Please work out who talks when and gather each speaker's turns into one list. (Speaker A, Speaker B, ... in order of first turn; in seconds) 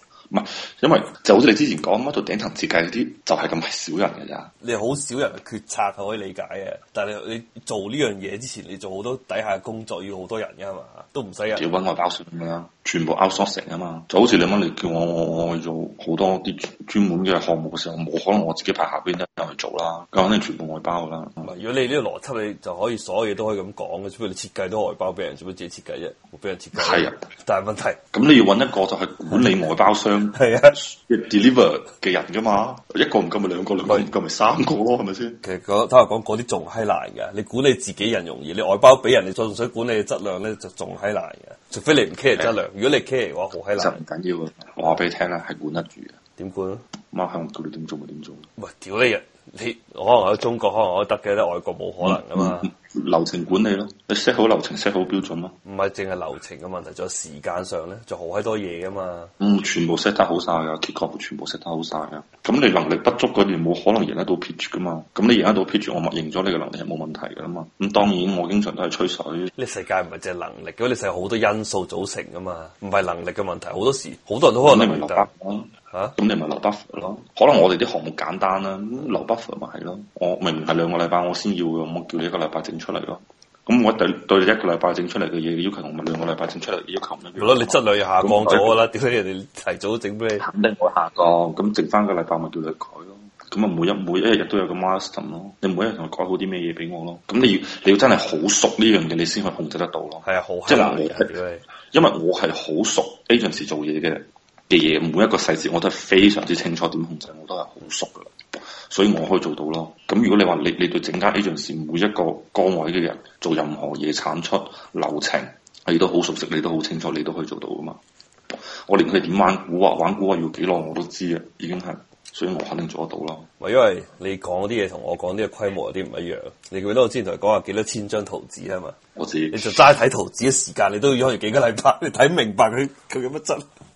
Speaker A: 0.3-4.5, 11.5-21.5, 26.8-27.2, 28.1-35.4, 43.8-46.2, 47.1-48.5, 52.0-55.5, 59.4-69.5, 74.6-88.8, 90.4-101.3, 101.9-108.3, 108.9-118.0, 118.8-123.5, 129.2-129.8
Speaker B: 4.6-11.7, 21.4-28.0, 30.3-30.8, 35.4-44.0, 46.4-46.8, 48.6-52.7, 55.6-59.3, 69.6-75.3, 87.4-90.5, 100.2-101.7, 123.6-129.0, 129.5-133.6